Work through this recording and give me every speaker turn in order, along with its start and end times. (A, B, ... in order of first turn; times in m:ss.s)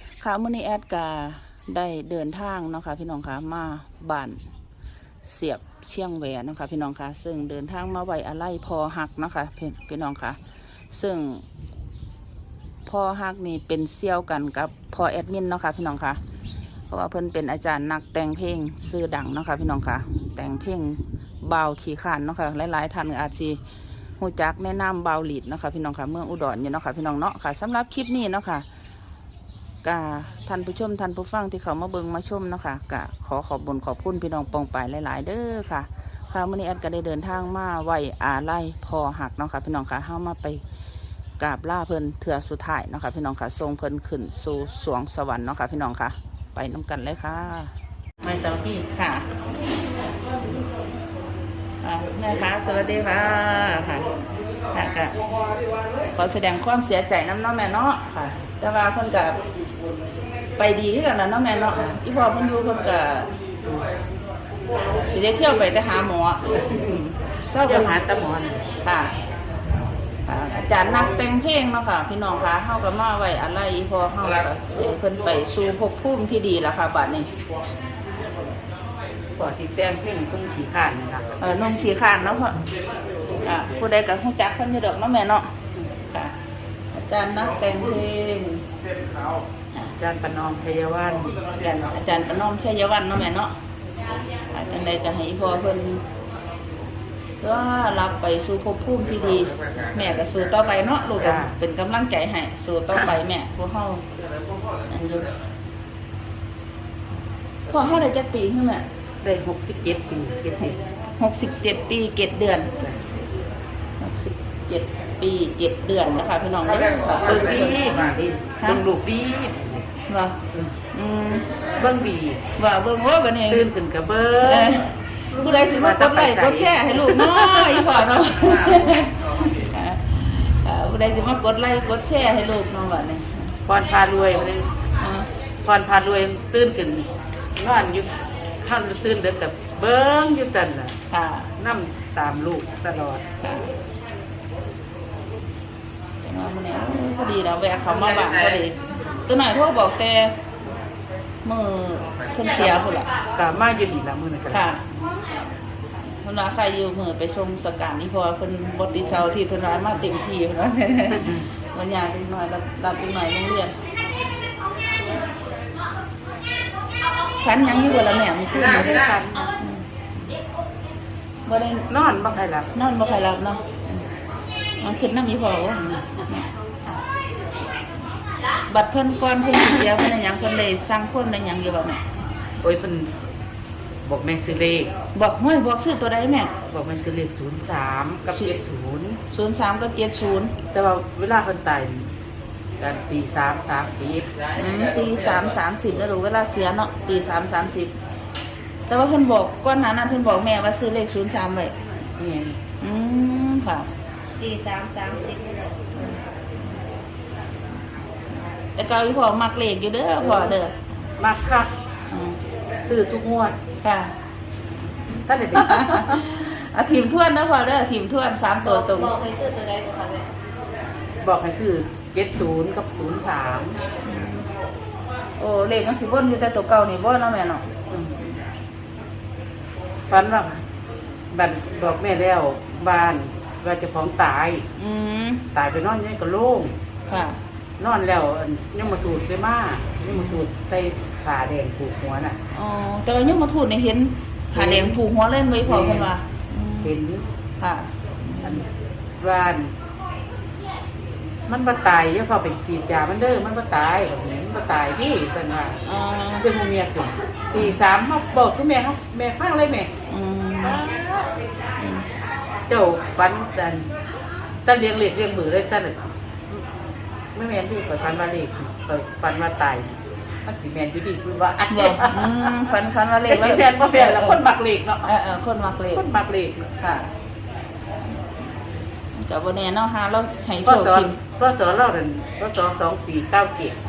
0:00.2-0:04.4 A
0:05.2-0:10.4 A
0:10.9-0:11.4 A
0:12.8-0:16.2 A
0:16.9-0:23.6 A
0:24.2-0:28.6 A
0:29.8-0:40.6 A
0:41.4-0:47.7 A
0:48.2-0:48.9 B
0:48.9-0:49.3 A
0:51.8-0:54.1 A
0:54.7-0:55.2 A
0:56.1-0:59.4 A
1:00.6-1:03.3 A
1:05.1-1:07.9 A
1:07.6-1:08.7 B
1:08.8-1:09.1 A
1:10.2-1:17.3 A
1:19.4-1:21.2 B
1:21.4-1:22.6 A
1:23.4-1:26.3 A
1:26.9-1:28.7 A
1:29.7-1:31.5 B
1:31.6-1:33.5 A
1:34.5-1:36.0 A
1:37.4-1:44.0 A
1:41.2-1:41.5 B
1:44.9-1:45.3 A
1:47.7-1:48.8 A
1:49.2-1:50.8 B
1:51.2-1:52.7 A
1:54.0-1:58.1 A
1:57.2-1:59.9 B
2:00.1-2:00.4 A
2:00.5-2:00.8 B
2:00.9-2:01.5 A
2:01.8-2:02.4 B
2:02.6-2:03.7 A
2:03.5-2:07.9 B
2:04.4-2:13.5 A
2:13.6-2:14.7 B
2:15.0-2:15.3 A
2:15.6-2:21.0 B
2:21.1-2:21.5 A
2:21.6-2:23.2 B
2:23.4-2:23.7 A
2:26.2-2:30.4 A
2:31.4-2:33.1 A
2:32.6-2:34.7 B
2:34.5-2:34.8 A
2:36.1-2:43.7 A
2:41.1-2:41.5 B
2:47.4-2:49.0 A
2:48.5-2:49.5 B
2:49.5-2:50.3 A
2:51.4-2:51.9 A
2:51.9-2:52.7 B
2:52.7-2:54.1 A
2:54.8-2:56.5 A
2:55.8-2:56.2 B
2:58.7-3:02.0 A
3:02.6-3:03.1 B
3:04.0-3:04.9 B
3:05.1-3:06.5 A
3:06.6-3:09.2 B
3:09.3-3:10.5 A
3:10.7-3:12.1 B
3:12.8-3:14.3 B
3:14.5-3:17.9 A
3:18.9-3:21.7 A
3:22.2-3:22.6 B
3:22.8-3:23.9 A
3:24.4-3:25.8 C
3:28.8-3:30.8 A
3:31.2-3:31.7 B
3:32.1-3:32.4 A
3:32.8-3:33.6 B
3:33.8-3:34.1 A
3:35.2-3:36.2 B
3:35.5-3:39.2 A
3:38.6-3:40.3 C
3:41.2-3:43.8 B
3:44.0-3:44.5 A
3:45.4-3:47.7 A
3:47.9-3:48.2 B
3:50.1-3:50.6 B
3:51.3-3:54.7 B
3:54.8-3:55.5 A
3:55.5-3:56.8 B
3:57.1-3:57.4 A
3:57.8-4:02.4 B
4:02.5-4:07.0 A
4:04.5-4:05.0 B
4:05.6-4:06.1 B
4:06.8-4:07.2 B
4:07.6-4:08.6 A
4:08.4-4:08.7 B
4:09.2-4:09.7 B
4:11.5-4:15.8 B
4:15.8-4:16.5 A
4:16.4-4:19.9 B
4:17.5-4:17.8 A
4:20.1-4:20.8 A
4:20.6-4:21.3 B
4:21.8-4:22.1 A
4:22.7-4:23.9 B
4:24.6-4:26.6 B
4:27.3-4:32.6 B
4:31.7-4:34.4 A
4:33.2-4:35.1 B
4:35.0-4:36.0 A
4:35.9-4:36.7 B
4:36.8-4:37.1 A
4:39.1-4:41.2 A
4:40.6-4:43.8 B